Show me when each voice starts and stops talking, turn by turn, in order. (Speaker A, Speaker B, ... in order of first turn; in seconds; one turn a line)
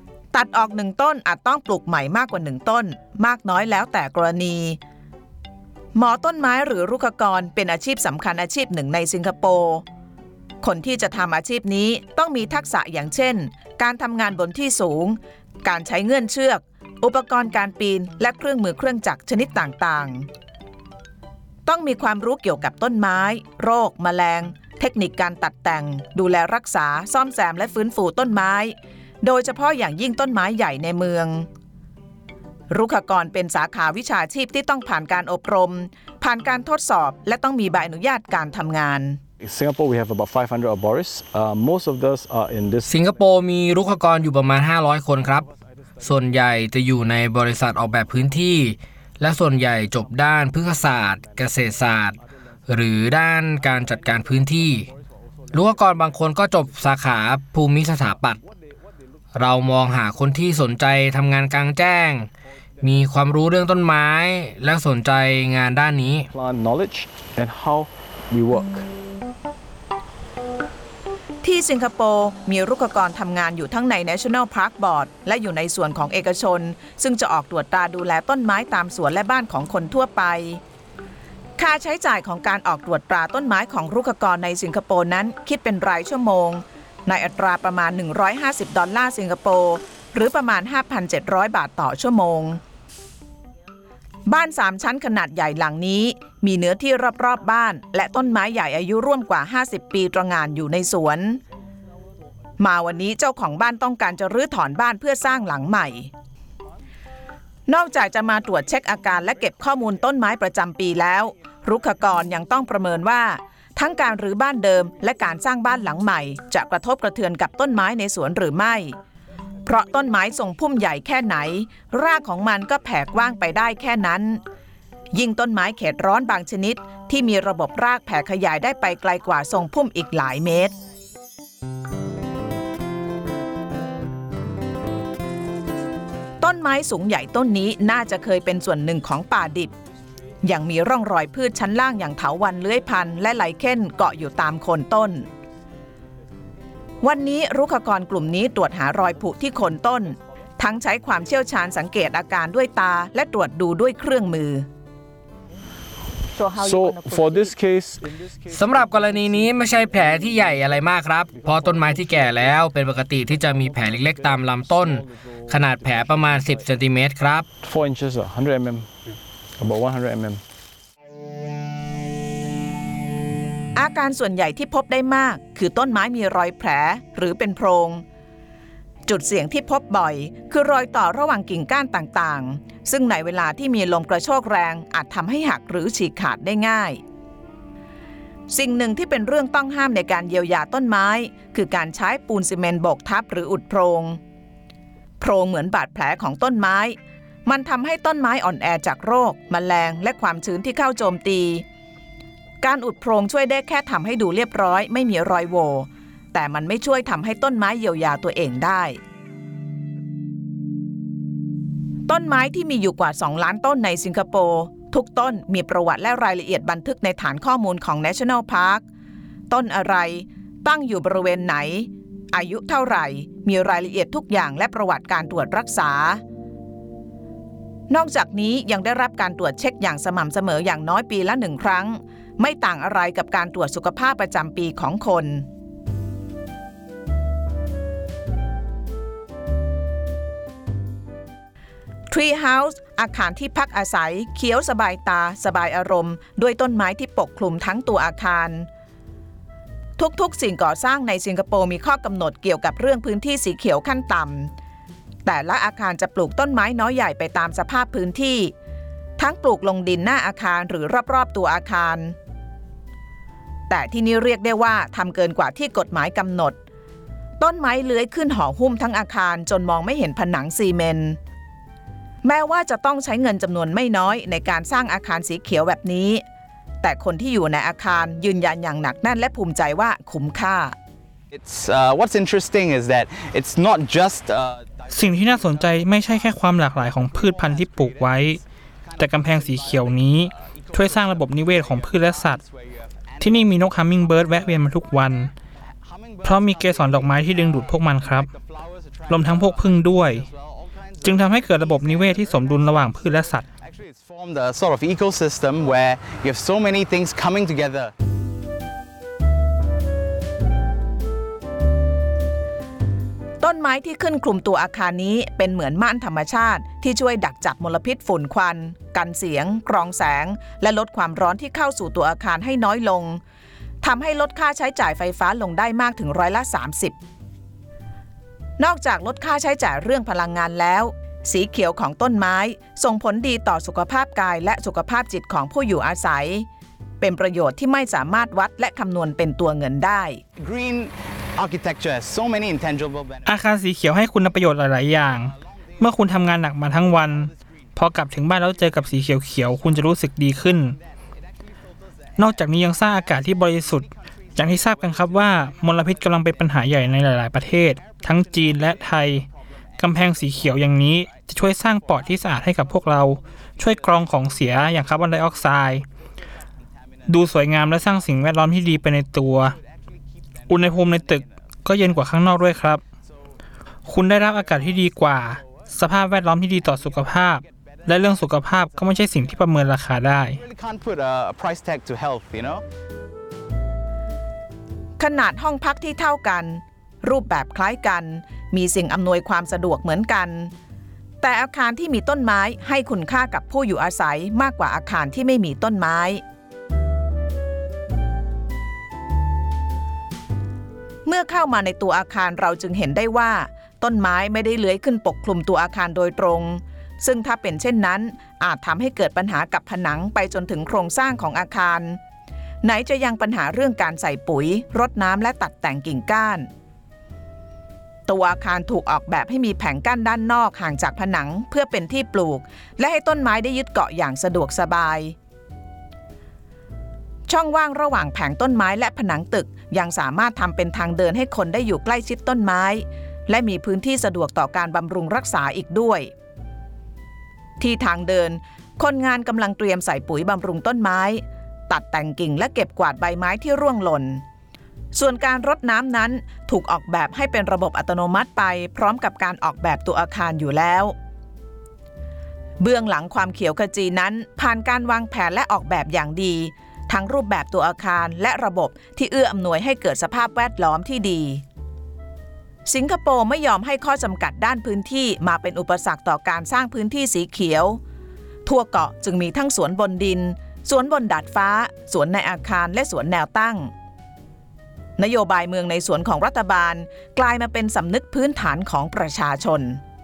Speaker A: 0.3-4.8
Speaker A: 6.0-9.8
Speaker A: 10.6-20.3
Speaker A: 21.7-31.5
Speaker A: 32.7-39.2
Speaker B: 39.4-42.9
Speaker C: 42.9-45.5
Speaker C: 46.0-54.9
Speaker C: 55.5-58.4
Speaker C: 59.3-66.3
Speaker B: 66.3-68.8
Speaker A: 71.4-80.6
Speaker A: 81.6-92.6
Speaker A: 94.3-101.4
Speaker A: 102.6-106.1
Speaker A: 107.7-119.0
Speaker A: 119.7-124.4
Speaker A: 125.1-130.8
Speaker A: 136.4-139.7
Speaker A: 140.4-145.3
Speaker A: 147.0-154.7
Speaker B: 156.4-159.5
Speaker C: 158.5-167.5
Speaker B: 161.7-162.4
Speaker B: 164.0-165.2
Speaker B: 167.6-168.9
Speaker B: 169.6-170.4
Speaker A: 173.8-178.0
Speaker A: 179.1-187.0
Speaker A: 188.5-194.2
Speaker A: 195.2-201.6
Speaker A: 202.6-209.0
Speaker A: 212.1-218.8
Speaker A: 219.5-226.2
Speaker A: 227.9-235.5
Speaker A: 242.1-248.7
Speaker A: 250.0-254.5
Speaker A: 255.2-258.5
Speaker A: 259.2-262.1
Speaker A: 263.7-266.6
Speaker A: 267.4-271.2
Speaker A: 272.2-276.2
Speaker A: 276.8-280.8
Speaker D: 281.3-295.3
Speaker E: 284.9-288.4
Speaker E: 289.0-292.4
Speaker E: 293.2-295.3
Speaker D: 295.8-307.9
Speaker E: 296.2-298.3
Speaker E: 299.1-300.3
Speaker E: 301.0-303.5
Speaker A: 313.4-323.2
Speaker A: 323.8-326.9
Speaker A: 328.6-336.5
Speaker A: 337.0-340.2
Speaker D: 340.4-343.3
Speaker E: 343.2-350.8
Speaker D: 345.0-365.2
Speaker E: 352.2-359.3
Speaker E: 359.8-365.9
Speaker D: 366.9-369.6
Speaker E: 367.1-369.6
Speaker D: 370.5-371.3
Speaker E: 370.5-372.8
Speaker D: 371.9-372.3
Speaker E: 373.9-380.4
Speaker D: 374.3-375.7
Speaker D: 376.4-379.6
Speaker D: 380.3-382.6
Speaker A: 385.0-390.5
Speaker A: 391.2-396.2
Speaker A: 401.1-412.0
Speaker A: 412.6-416.5
Speaker A: 418.1-425.2
Speaker A: 427.3-436.1
Speaker A: 437.6-444.2
Speaker A: 444.9-450.9
Speaker A: 452.6-461.4
Speaker A: 462.7-467.8
Speaker A: 468.5-473.7
Speaker A: 475.0-479.8